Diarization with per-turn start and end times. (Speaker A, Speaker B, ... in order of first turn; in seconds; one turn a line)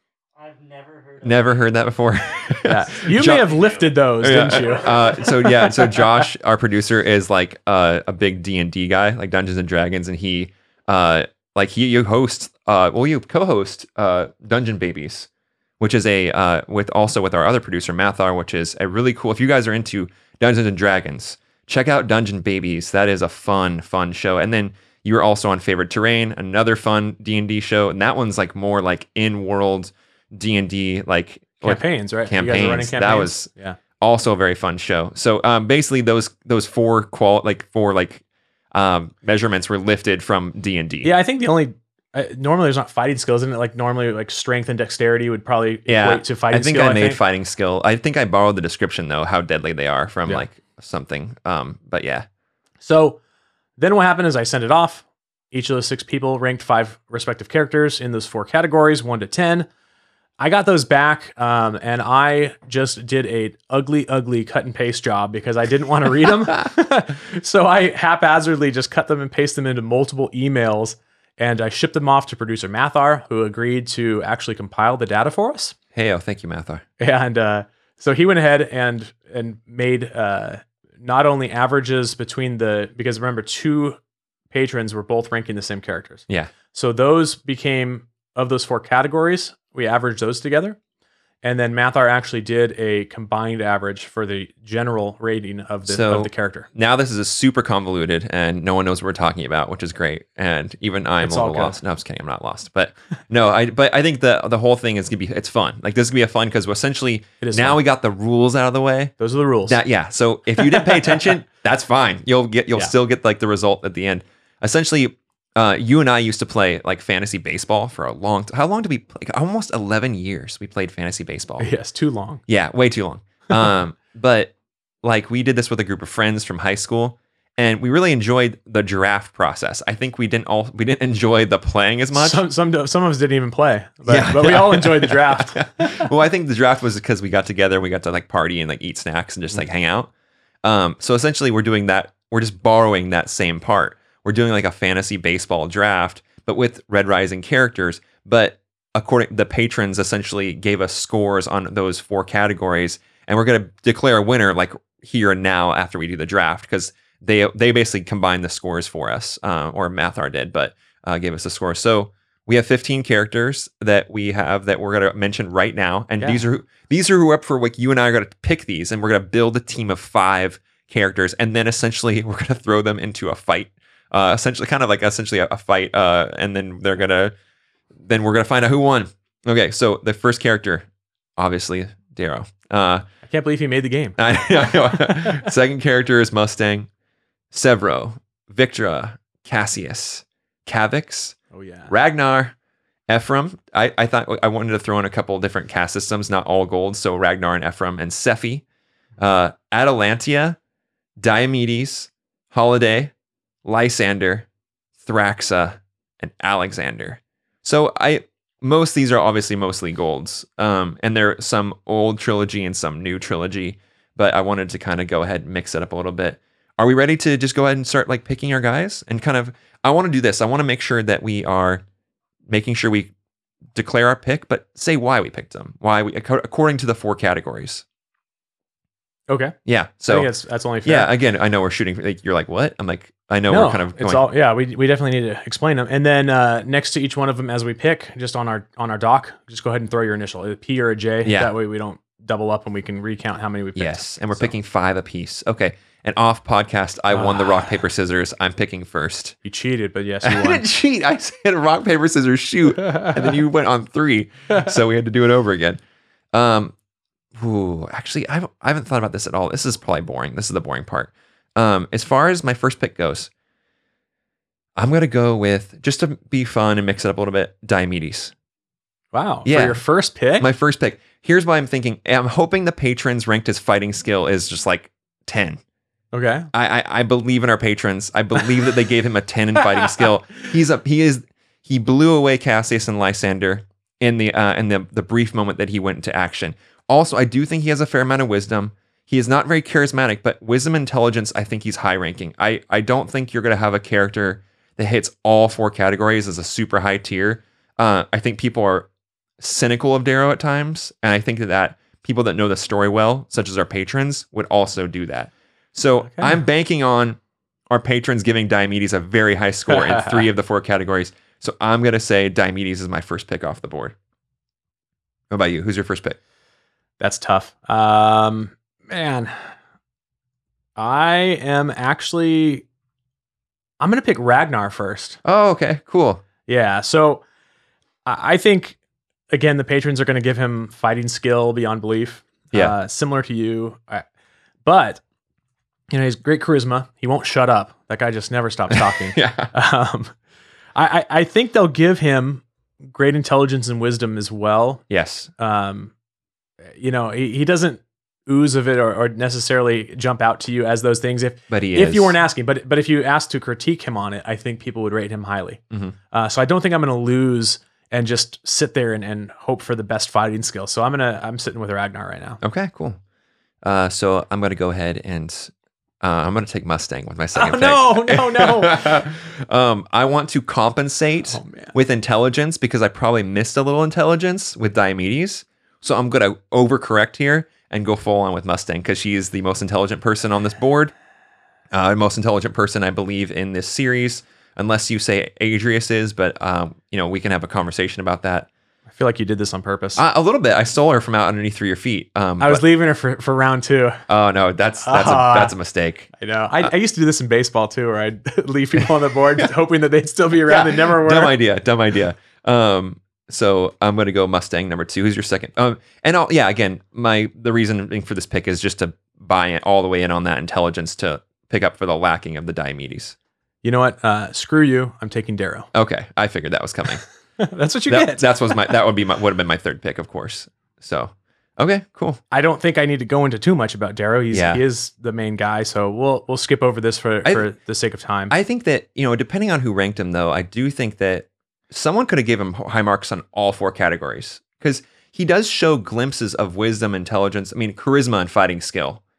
Speaker A: 0.4-1.8
Speaker B: 1.2-3.6
Speaker C: 2.6-6.3
Speaker B: 4.2-15.3
Speaker A: 4.3-5.4
Speaker B: 15.8-33.5
Speaker C: 31.6-33.8
Speaker B: 34.0-38.2
Speaker B: 38.7-41.1
Speaker C: 41.0-47.2
Speaker B: 45.9-52.3
Speaker C: 52.8-53.2
Speaker C: 53.8-59.7
Speaker C: 60.4-75.8
Speaker B: 75.9-76.8
Speaker C: 77.0-84.0
Speaker C: 84.5-90.8
Speaker C: 91.4-96.7
Speaker B: 95.9-109.1
Speaker C: 101.2-101.8
Speaker C: 107.4-107.8
Speaker C: 109.2-109.8
Speaker B: 109.7-121.7
Speaker C: 110.6-111.3
Speaker C: 121.6-122.4
Speaker B: 122.5-132.4
Speaker C: 132.1-136.1
Speaker B: 134.1-140.1
Speaker B: 140.6-177.3
Speaker B: 178.0-183.1
Speaker C: 183.3-184.2
Speaker B: 184.2-186.9
Speaker C: 184.8-185.4
Speaker B: 187.5-191.4
Speaker C: 191.5-191.9
Speaker B: 191.9-192.5
Speaker B: 193.1-198.6
Speaker B: 199.2-200.6
Speaker B: 201.2-203.1
Speaker B: 203.7-204.5
Speaker B: 205.0-221.8
Speaker B: 222.5-223.1
Speaker B: 223.7-227.8
Speaker C: 229.3-229.6
Speaker B: 229.7-230.3
Speaker C: 230.1-231.1
Speaker B: 230.8-234.2
Speaker C: 233.5-244.5
Speaker B: 241.2-241.5
Speaker B: 243.8-249.4
Speaker C: 247.1-247.7
Speaker C: 249.4-250.6
Speaker B: 250.2-255.8
Speaker B: 256.3-256.8
Speaker B: 257.4-263.3
Speaker B: 264.8-268.3
Speaker C: 269.1-270.5
Speaker B: 269.4-269.8
Speaker B: 270.4-275.6
Speaker C: 276.1-276.5
Speaker B: 276.5-307.2
Speaker C: 306.0-306.4
Speaker B: 307.7-314.0
Speaker C: 309.8-310.2
Speaker B: 315.3-316.2
Speaker C: 317.0-319.6
Speaker C: 320.8-322.7
Speaker C: 323.8-325.2
Speaker B: 325.2-326.2
Speaker C: 326.5-327.2
Speaker C: 328.1-328.8
Speaker C: 329.3-334.1
Speaker C: 334.6-335.0
Speaker C: 335.9-340.1
Speaker B: 338.7-339.5
Speaker C: 340.8-344.8
Speaker B: 344.9-345.3
Speaker C: 345.4-345.9
Speaker C: 346.7-362.4
Speaker B: 351.5-352.2
Speaker B: 362.4-363.0
Speaker B: 363.6-380.9
Speaker C: 367.4-369.1
Speaker C: 371.3-371.8
Speaker B: 381.7-388.5
Speaker C: 388.9-390.0
Speaker B: 390.0-392.6
Speaker C: 392.4-394.0
Speaker B: 394.1-396.7
Speaker C: 394.8-395.6
Speaker C: 396.1-401.4
Speaker B: 400.5-413.2
Speaker C: 413.6-415.7
Speaker B: 415.7-417.0
Speaker C: 417.4-418.3
Speaker B: 417.9-422.2
Speaker C: 422.3-428.3
Speaker B: 424.3-424.6
Speaker B: 428.3-439.0